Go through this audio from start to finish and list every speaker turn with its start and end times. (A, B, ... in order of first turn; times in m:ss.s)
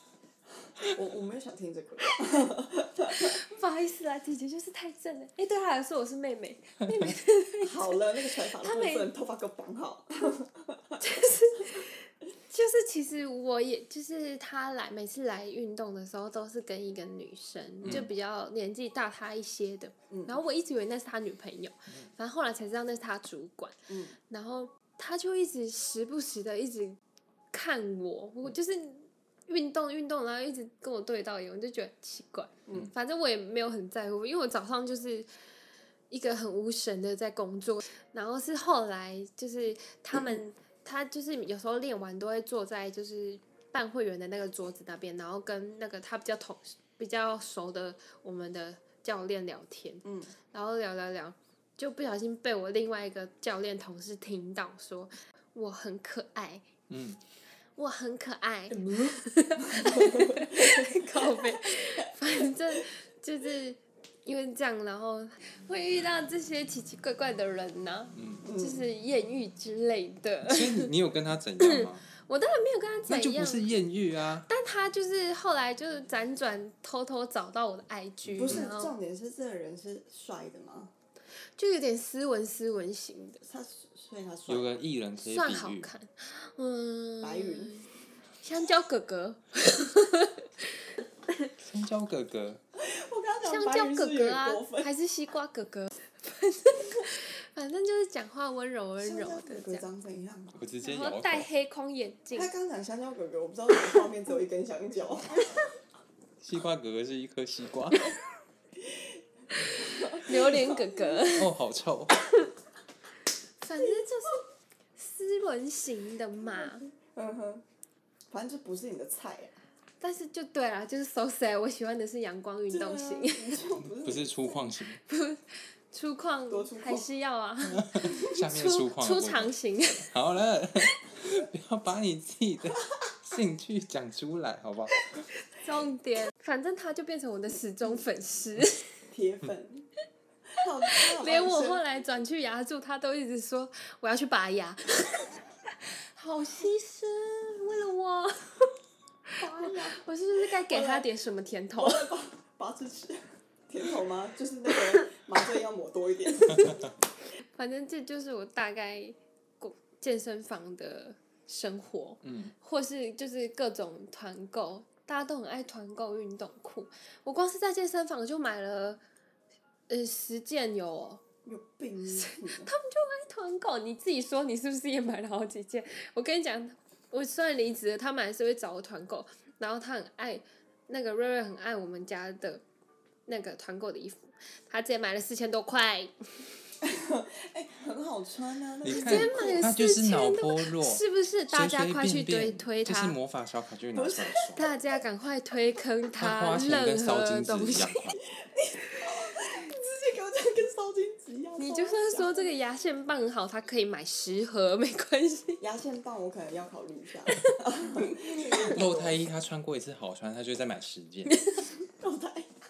0:00.8-0:03.4 A
0:03.1-0:09.1 B
0:07.6-0:11.0 A
0:11.0-0:27.0 B
0:20.1-0:20.4 A
0:23.9-0:24.2 A
0:27.5-0:35.3 B
0:36.1-0:56.7 B
0:50.0-0:50.3 A
0:56.9-0:57.2 C
0:57.8-1:10.9 B
0:58.7-1:02.4 A
1:08.1-1:08.4 C
1:08.4-1:08.8 A
1:10.4-1:12.0 C
1:11.6-1:13.7 B
1:13.1-1:14.5 C
1:14.5-1:18.9 B
1:18.2-1:18.7 C
1:18.4-1:20.9 A
1:21.6-1:23.4 B
1:23.4-1:24.8 A
1:24.5-1:25.9 C
1:25.2-1:27.9 B
1:27.2-1:27.8 A
1:28.4-1:31.3 B
1:31.6-1:32.6 C
1:32.8-1:34.9 A
1:33.4-1:39.8 B
1:39.0-1:40.6 A
1:40.5-1:41.5 C
1:40.8-1:42.5 B
1:42.3-1:45.5 A
1:46.4-1:48.1 C
1:48.8-1:51.3 A
1:49.6-1:51.5 B
1:51.3-1:52.2 C
1:53.6-1:54.4 B
1:53.8-1:54.0 A
1:55.0-1:56.8 B
1:56.4-1:57.6 A
1:58.3-1:59.6 A
2:00.0-2:03.6 B
2:02.7-2:04.6 A
2:03.8-2:05.0 C
2:05.0-2:10.1 B
2:06.5-2:07.1 A
2:07.7-2:15.1 C
2:15.5-2:18.9 B
2:19.1-2:19.9 A
2:20.6-2:21.8 A
2:20.8-2:28.7 B
2:29.3-2:32.1 B
2:29.4-2:31.1 A
2:31.7-2:36.9 A
2:37.5-2:49.0 B
2:42.2-2:42.5 C
2:49.9-2:51.2 B
2:51.4-2:52.7 A
2:52.1-3:02.6 B
3:03.3-3:06.1 B
3:06.8-3:09.7 A
3:08.8-3:14.7 C
3:08.9-3:13.2 B
3:13.9-3:14.8 A
3:14.6-3:18.0 B
3:16.2-3:18.2 C
3:18.4-3:22.5 A
3:21.6-3:25.6 B
3:25.6-3:29.2 A
3:27.3-3:27.6 B
3:28.2-3:31.5 C
3:31.8-3:32.5 A